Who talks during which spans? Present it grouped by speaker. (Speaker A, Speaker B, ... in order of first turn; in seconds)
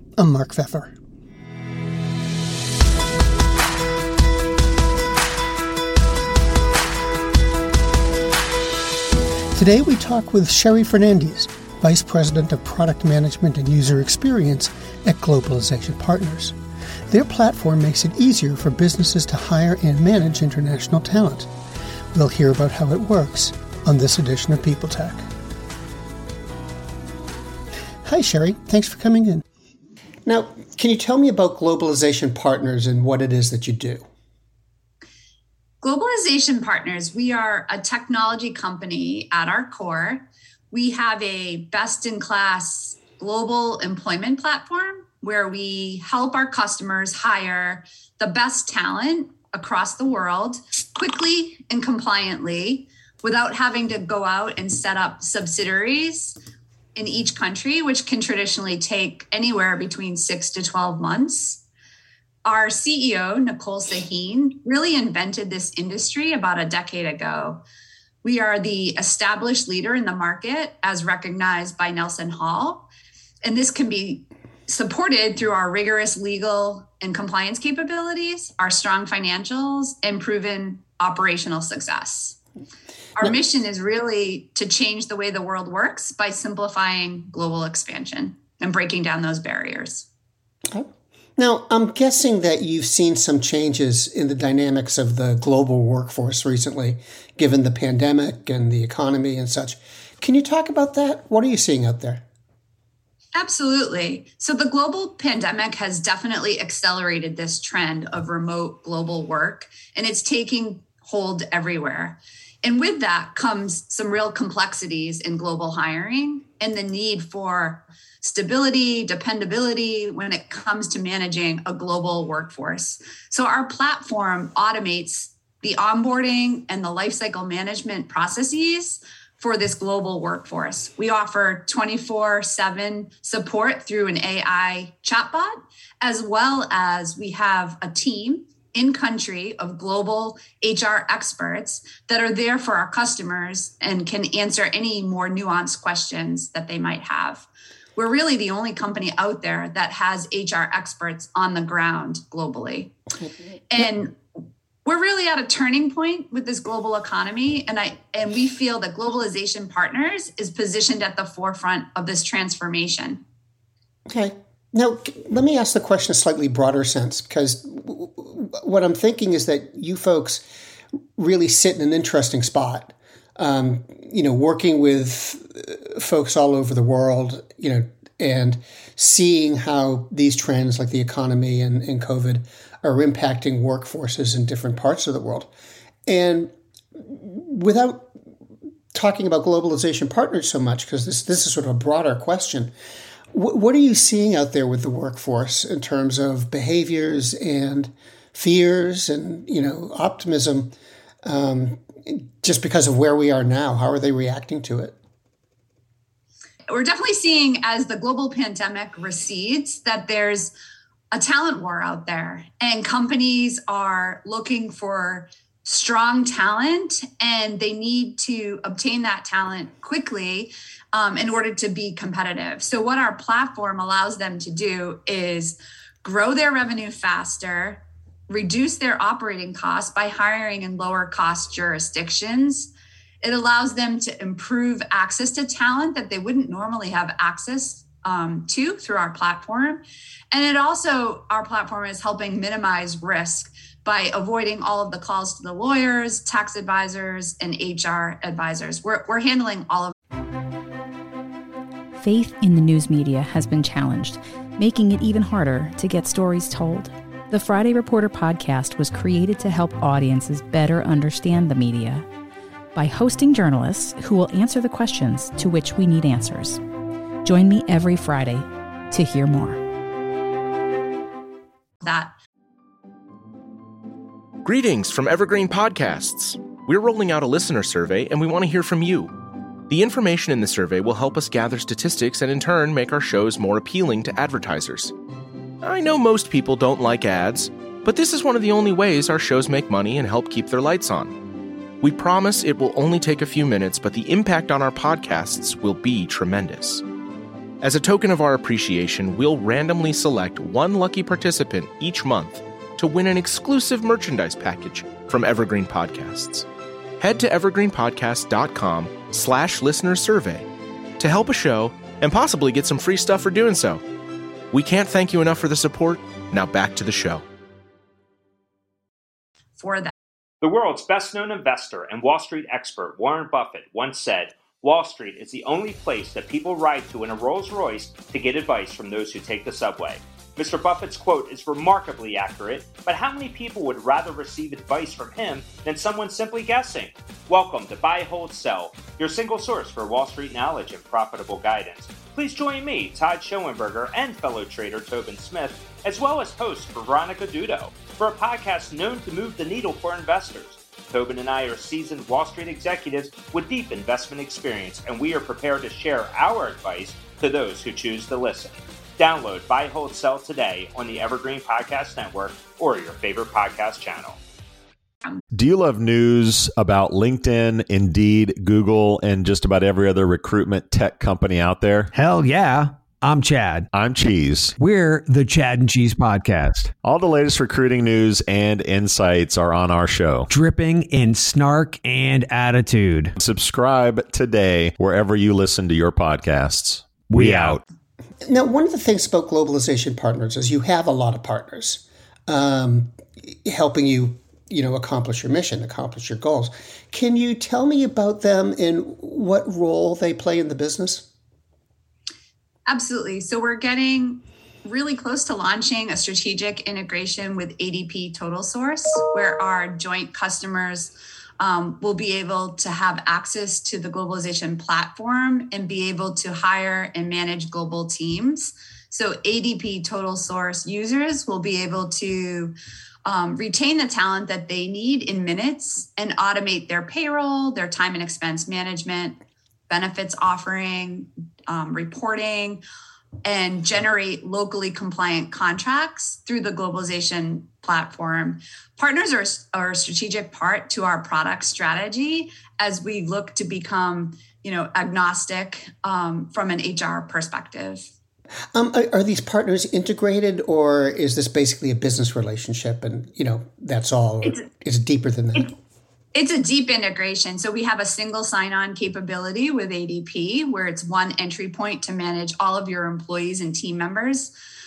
Speaker A: 0.2-0.9, 9.5-16.5, 17.1-21.5, 22.1-25.2, 28.1-29.4, 30.3-34.0, 90.7-102.2, 164.1-170.4, 171.2-185.5, 186.1-188.1, 188.9-192.7, 193.3-200.7, 201.2-205.0, 388.3-401.1, 448.5-455.5
Speaker B: 35.8-56.4, 57.0-61.6, 62.5-67.6, 68.2-72.9, 73.4-82.4, 83.2-90.1, 103.4-152.9, 153.7-154.1, 154.8-163.2, 206.7-210.5, 211.1-232.7, 233.2-249.9, 271.8-272.1, 319.6-319.9, 402.7-422.5, 423.1-429.2, 429.7-432.6, 433.2-447.9, 456.1-464.3
Speaker C: 252.0-262.1, 262.8-266.6, 267.2-269.6
Speaker D: 274.4-279.1, 279.7-284.9, 285.6-291.2, 291.8-296.8, 297.6-306.5, 307.0-310.5, 311.0-313.8, 314.5-317.2
Speaker E: 320.4-364.2
Speaker F: 365.3-371.9, 373.7-374.6, 376.7-380.3, 383.1-387.6
Speaker G: 371.9-373.7, 374.6-376.6, 380.3-383.1, 387.1-387.5